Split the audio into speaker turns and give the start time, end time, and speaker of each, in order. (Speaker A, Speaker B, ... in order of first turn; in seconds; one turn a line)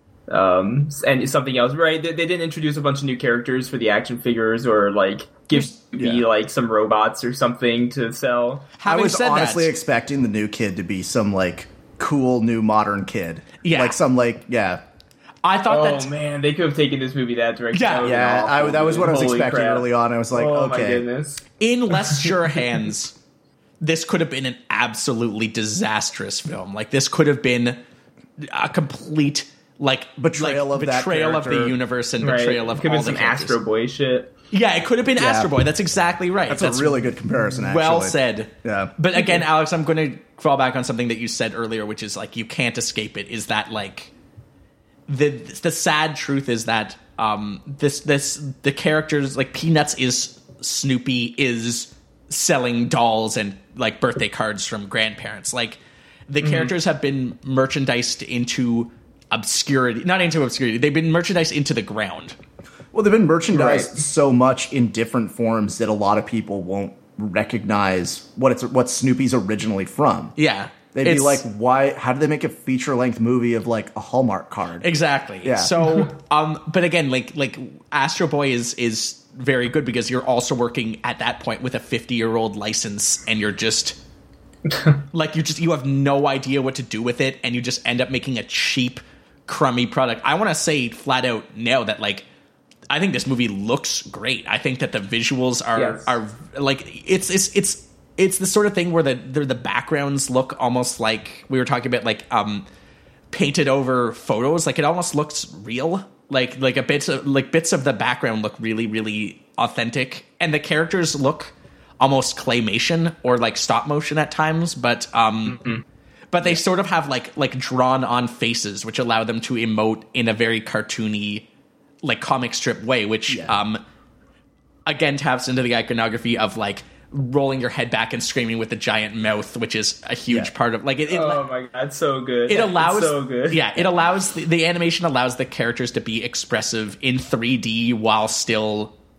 Speaker A: 0.3-8.7
Speaker B: 5.5-6.2
Speaker C: 8.8-9.7
Speaker B: 8.8-14.8
Speaker C: 13.6-14.0
Speaker C: 15.4-16.1
Speaker A: 15.7-21.4
Speaker C: 17.7-18.1
Speaker B: 18.0-21.1
Speaker C: 21.6-23.1
Speaker C: 23.8-27.8
Speaker C: 28.4-33.6
Speaker B: 30.2-31.8
Speaker A: 32.2-34.3
Speaker C: 34.5-37.0
Speaker B: 35.2-35.5
Speaker B: 36.5-38.9
Speaker C: 37.6-44.1
Speaker C: 45.1-62.4
Speaker A: 56.4-56.7
Speaker B: 62.9-70.3
Speaker A: 63.5-64.0
Speaker C: 70.3-71.4
Speaker B: 70.9-74.9
Speaker C: 74.8-84.0
Speaker B: 75.4-75.7
Speaker C: 85.1-92.2
Speaker C: 92.9-102.7
Speaker A: 95.8-96.1
Speaker C: 103.3-115.6
Speaker C: 116.3-121.5
Speaker C: 122.0-123.8
Speaker B: 123.3-123.6
Speaker C: 124.8-131.4
Speaker A: 131.1-133.8
Speaker C: 132.5-138.9